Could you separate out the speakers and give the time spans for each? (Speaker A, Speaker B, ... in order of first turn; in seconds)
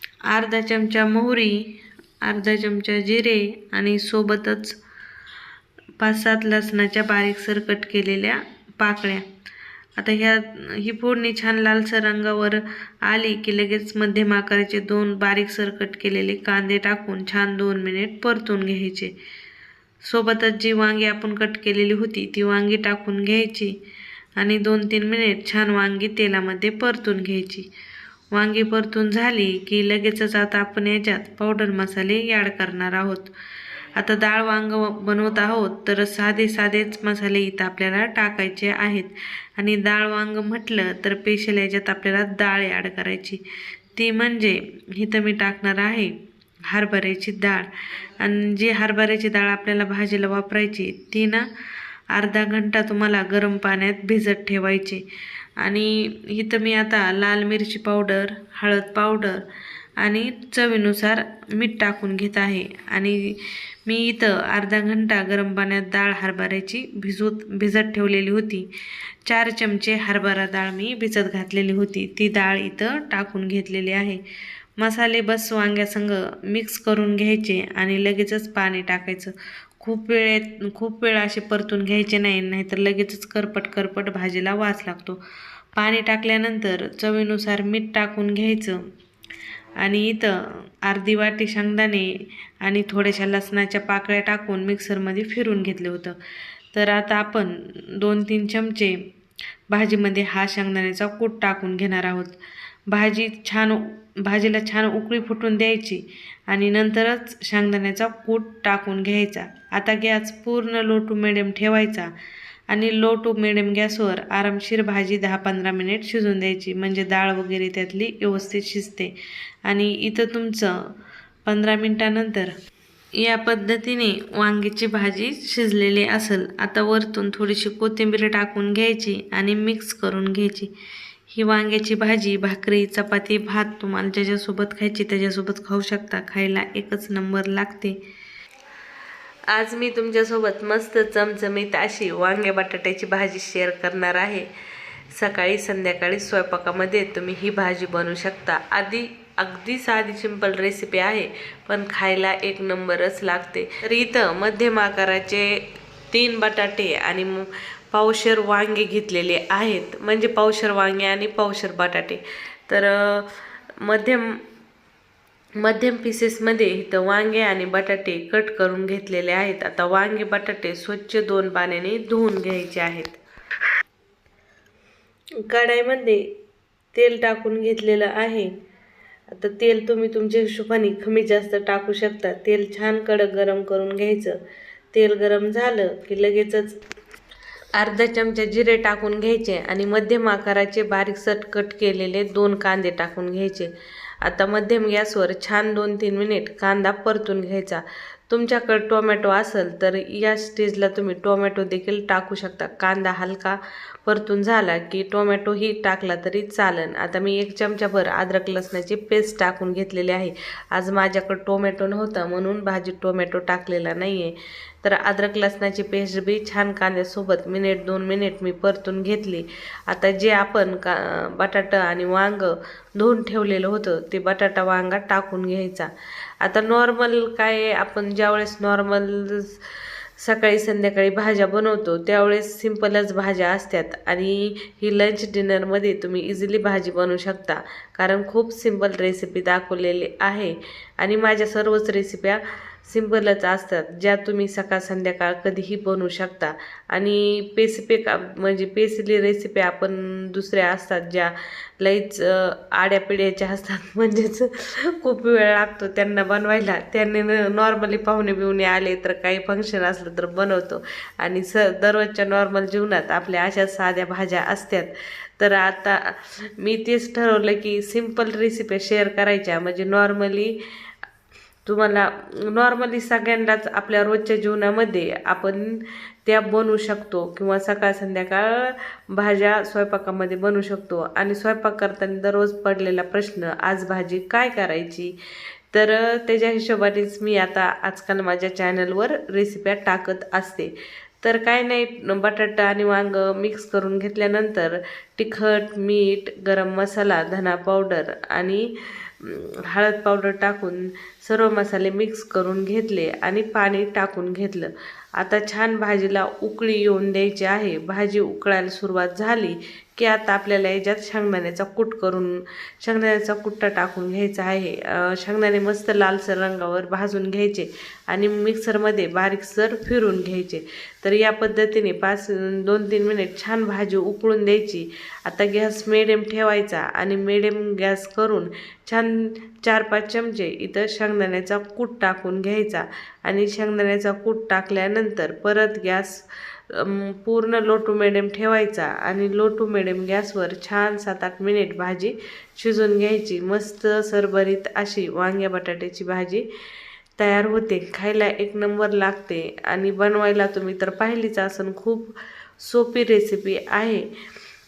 Speaker A: 0.3-4.8, 6.0-9.3, 10.0-19.1, 20.0-23.7, 24.4-27.7, 28.3-33.3, 34.0-43.4, 44.0-46.1, 46.7-51.5, 52.1-55.0, 55.6-59.4, 60.0-68.7, 69.3-74.2, 74.8-85.2, 85.8-88.9, 89.8-96.2, 96.7-99.0, 99.7-102.4, 102.9-112.1, 112.7-119.1, 119.7-120.9, 121.5-122.5, 123.2-130.7, 131.3-138.0, 139.5-144.5, 145.1-164.4, 165.6-173.2, 175.5-176.3, 176.9-178.5, 179.3-184.4, 184.9-186.8, 187.8-225.9, 226.4-229.6, 230.2-270.6, 271.7-285.1, 285.7-346.4, 347.2-354.0